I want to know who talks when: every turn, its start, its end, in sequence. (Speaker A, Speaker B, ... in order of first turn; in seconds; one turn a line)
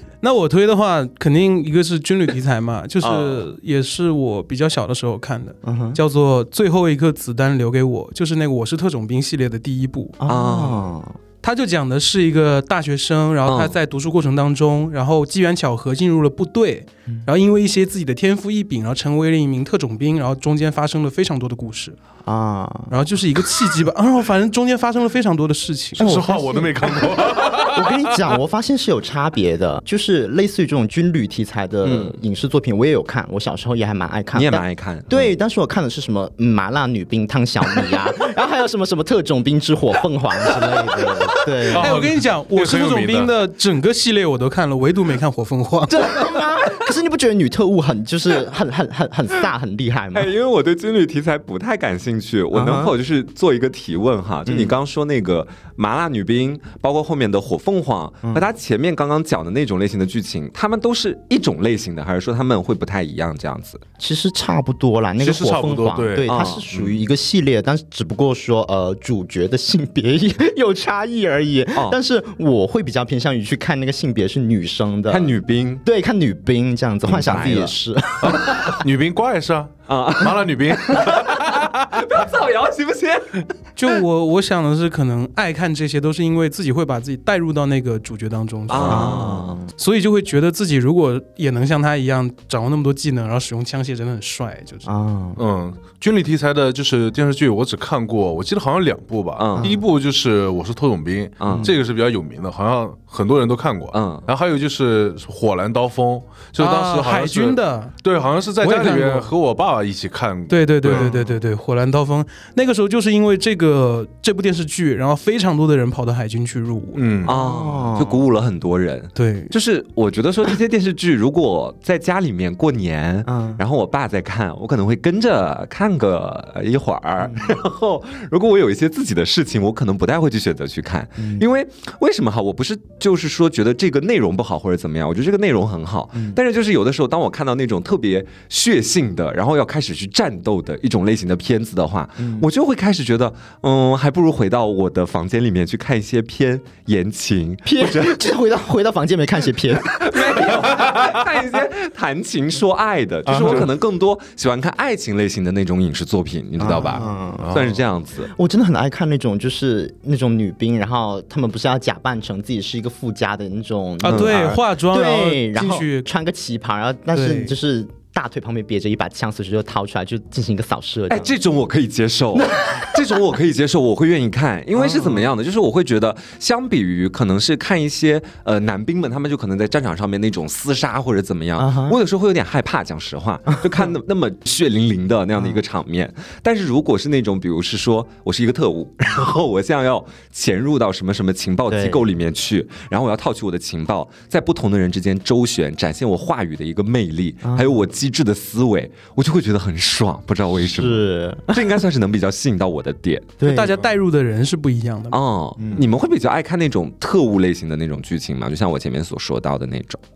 Speaker A: 0.2-10.2
Speaker B: 3.0-3.5
Speaker C: 5.6-6.0
Speaker C: 10.2-11.2
Speaker B: 10.3-10.9
Speaker A: 11.4-22.0
Speaker B: 13.5-13.7
Speaker C: 22.2-22.9
Speaker A: 22.9-26.1
Speaker D: 26.0-28.1
Speaker C: 26.0-42.0
Speaker B: 31.8-32.2
Speaker B: 34.3-35.3
Speaker D: 41.7-43.3
Speaker A: 41.7-46.3
Speaker C: 45.9-50.3
Speaker B: 50.1-63.8
Speaker C: 52.5-52.9
Speaker C: 54.5-54.7
Speaker C: 64.0-75.3
Speaker D: 65.2-66.5
Speaker B: 66.3-66.9
Speaker B: 75.1-75.8
Speaker C: 75.8-78.8
Speaker B: 77.0-77.7
Speaker D: 78.2-82.0
Speaker B: 79.9-83.5
Speaker A: 83.8-94.9
Speaker B: 88.7-89.6
Speaker C: 88.7-89.7
Speaker C: 94.8-95.4
Speaker D: 95.4-111.1
Speaker B: 99.3-99.8
Speaker C: 99.5-99.8
Speaker B: 101.4-101.7
Speaker C: 101.5-101.7
Speaker B: 103.9-104.3
Speaker A: 106.6-107.9
Speaker A: 108.6-109.3
Speaker A: 110.5-117.0
Speaker C: 110.9-111.4
Speaker D: 116.9-117.3
Speaker B: 117.2-148.2
Speaker C: 117.2-118.2
Speaker A: 119.1-119.5
Speaker C: 123.2-123.6
Speaker C: 127.2-127.5
Speaker C: 131.2-131.4
Speaker C: 142.2-142.5
Speaker C: 147.6-150.8
Speaker B: 149.8-158.3
Speaker C: 153.2-153.7
Speaker C: 156.6-157.6
Speaker D: 157.4-157.8
Speaker C: 158.3-171.3
Speaker A: 164.0-166.1
Speaker A: 167.1-167.5
Speaker B: 171.1-203.3
Speaker C: 172.3-173.0
Speaker C: 174.7-175.3
Speaker C: 181.6-182.0
Speaker C: 191.7-192.0
Speaker C: 197.4-197.9
Speaker C: 200.6-201.8
Speaker C: 203.4-203.8
Speaker A: 203.4-205.2
Speaker B: 205.1-210.0
Speaker C: 205.6-205.8